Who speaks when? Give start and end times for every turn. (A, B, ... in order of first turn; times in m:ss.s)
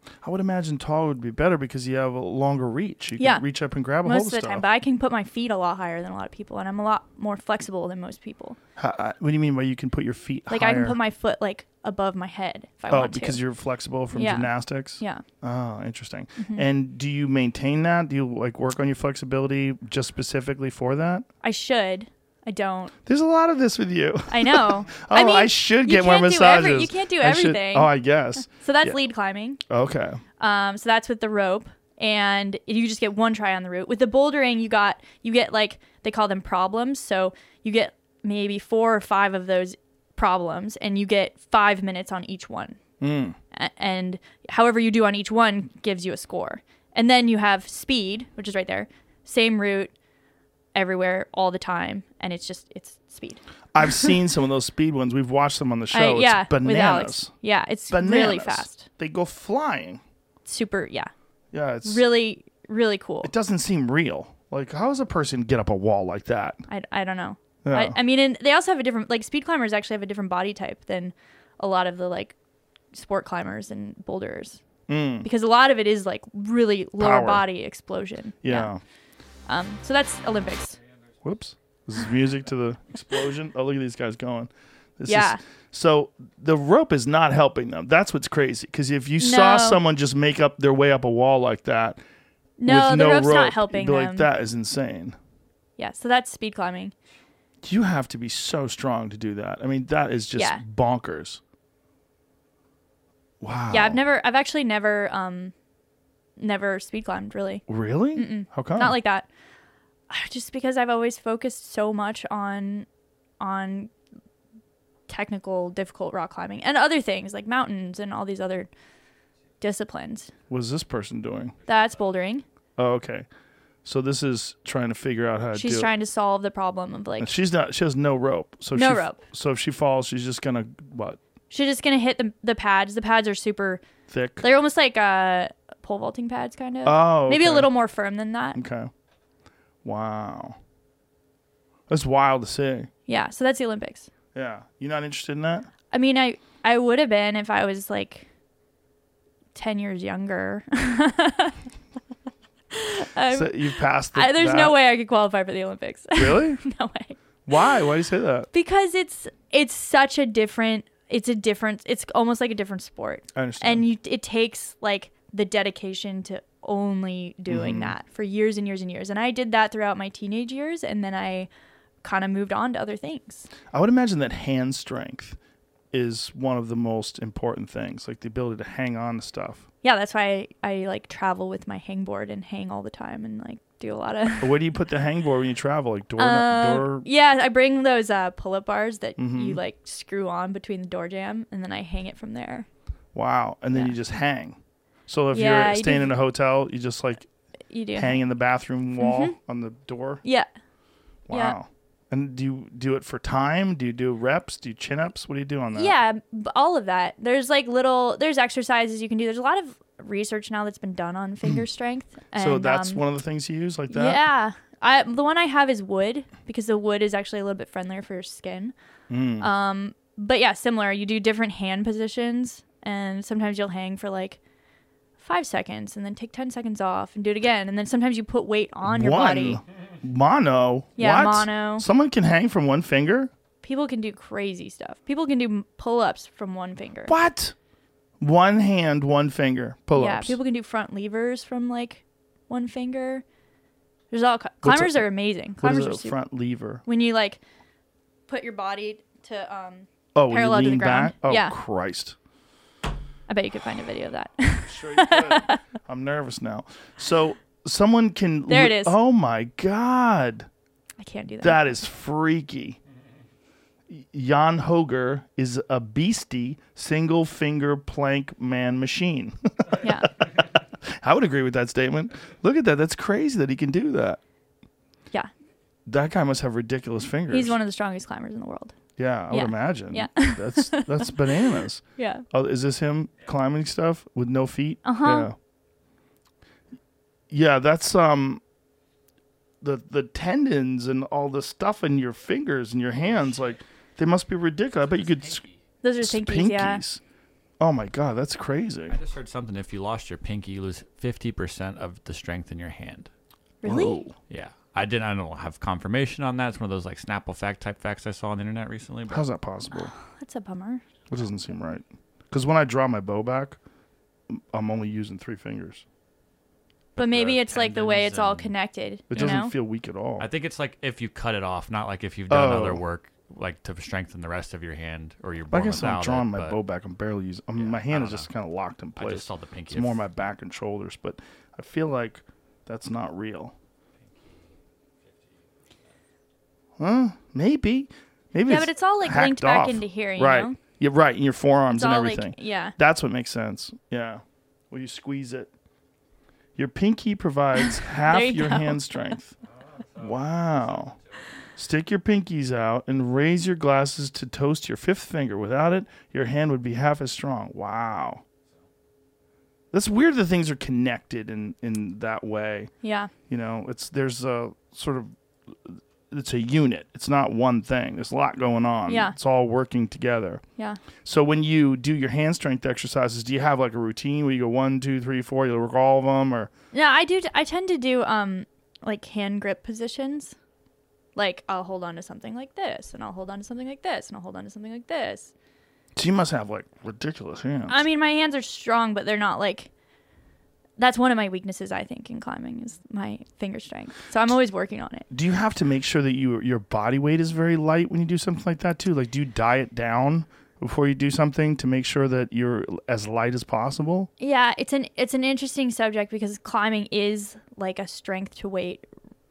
0:00.2-0:04.6 A
0:03.2-0:03.4 B
0:04.0-0:08.6 B
0:08.8-0:11.0 A
0:10.5-0:13.4 B
0:12.9-0:21.3 A
0:14.1-0:15.2 B
0:16.4-0:16.6 B
0:21.4-0:22.9 B
0:23.1-0:29.0 A
0:24.3-0:27.9 B
0:28.5-0:29.6 B
0:29.7-0:30.2 A
0:30.4-0:42.8 B
0:43.0-0:43.4 A
0:43.5-0:49.9 B
0:50.7-0:54.1 B
0:53.7-0:57.3 A
0:55.9-0:58.9 B
0:57.9-1:00.0 A
1:00.5-1:01.1 B
1:01.5-1:02.0 A
1:01.8-1:03.3 B
1:03.2-1:06.6 A
1:06.7-1:12.4 B
1:07.6-1:08.0 A
1:12.9-1:14.6 B
1:14.9-1:15.3 A
1:15.2-1:18.7 B
1:17.0-1:17.5 A
1:18.4-1:18.8 A
1:19.5-1:20.8 B
1:21.2-1:32.0 A
1:25.1-1:25.4 B
1:29.2-1:29.8 B
1:32.6-1:34.3 B
1:32.7-1:35.2 A
1:35.8-1:37.0 B
1:37.6-1:41.4 A
1:40.4-1:40.6 B
1:43.4-1:44.0 A
1:43.7-1:45.5 B
1:46.4-1:49.3 B
1:47.7-1:48.9 A
1:50.1-1:52.9 B
1:53.4-1:53.9 B
1:55.1-1:58.7 B
1:59.6-2:00.3 B
2:00.5-2:01.6 A
2:01.7-2:02.4 B
2:02.8-2:03.3 A
2:03.8-2:05.9 A
2:05.6-2:07.3 B
2:07.2-2:11.2 A
2:08.7-2:09.2 B
2:11.5-2:13.8 B
2:14.1-2:14.4 A
2:14.4-2:18.6 B
2:16.8-2:17.7 A
2:18.6-2:18.9 A
2:19.8-2:20.6 A
2:21.9-2:22.9 A
2:23.1-2:24.1 B
2:24.4-2:25.7 A
2:25.9-2:28.3 B
2:29.6-2:31.6 B
2:32.7-2:37.2 B
2:33.3-2:34.7 A
2:36.2-2:36.6 A
2:37.5-2:38.5 A
2:38.5-2:51.5 B
2:43.4-2:43.8 A
2:47.5-2:47.9 A
2:52.0-2:53.5 B
2:53.7-2:55.4 A
2:55.9-2:59.6 A
2:59.8-3:04.5 B
3:04.4-3:07.1 A
3:06.2-3:12.7 B
3:09.2-3:09.6 A
3:13.1-3:17.3 A
3:15.3-3:16.1 B
3:17.7-3:18.2 B
3:18.0-3:20.2 A
3:19.0-3:19.4 B
3:20.2-3:20.5 B
3:21.3-3:25.9 A
3:21.3-3:21.6 B
3:25.7-3:33.0 B
3:32.4-3:34.2 A
3:33.9-3:38.7 B
3:39.1-3:39.5 A
3:39.4-3:44.4 B
3:45.2-3:49.6 B
3:48.9-3:53.3 A
3:51.0-3:51.9 B
3:53.6-3:57.1 B
3:57.1-3:57.6 A
3:58.2-4:00.4 A
4:00.0-4:03.2 B
4:04.1-4:06.2 B
4:04.6-4:06.8 A
4:06.9-4:07.4 B
4:08.3-4:11.6 B
4:10.2-4:12.2 A
4:13.3-4:15.6 B
4:14.7-4:20.5 A
4:18.5-4:18.9 B
4:21.0-4:21.7 B
4:21.4-4:22.8 A
4:23.9-4:34.2 A
4:29.8-4:30.1 B
4:35.9-4:37.6 A
4:37.3-4:38.8 B
4:39.0-4:45.4 A
4:39.3-4:42.2 B
4:44.8-4:45.3 B
4:47.3-4:48.4 A
4:49.6-4:55.5 A
4:55.8-4:56.8 B
4:56.0-4:57.0 A
4:57.6-4:59.0 A
4:58.9-5:03.1 C
5:03.6-5:04.0 B
5:03.6-5:04.2 A
5:04.3-5:09.3 C
5:09.1-5:09.9 A
5:09.8-5:10.8 B
5:11.1-5:13.6 A
5:14.3-5:15.8 A
5:17.0-5:18.5 C
5:17.0-5:19.5 B
5:19.1-5:20.3 A
5:20.2-5:26.6 C
5:22.3-5:22.8 A
5:25.5-5:33.5 A
5:27.6-5:28.3 C
5:29.0-5:30.0 C
5:36.8-5:45.5 A
5:38.5-5:40.6 B
5:41.7-5:42.8 B
5:46.6-5:49.4 A
5:47.6-5:49.2 B
5:50.0-5:51.0 A
5:51.6-5:58.2 A
5:59.7-6:02.7 A
6:02.8-6:03.1 B
6:03.3-6:10.4 A
6:08.9-6:09.2 B
6:11.0-6:16.5 A
6:16.7-6:20.4 B
6:21.2-6:25.3 B
6:26.0-6:27.8 A
6:27.7-6:29.7 B
6:30.8-6:35.1 B
6:35.1-6:44.1 A
6:44.2-6:48.9 B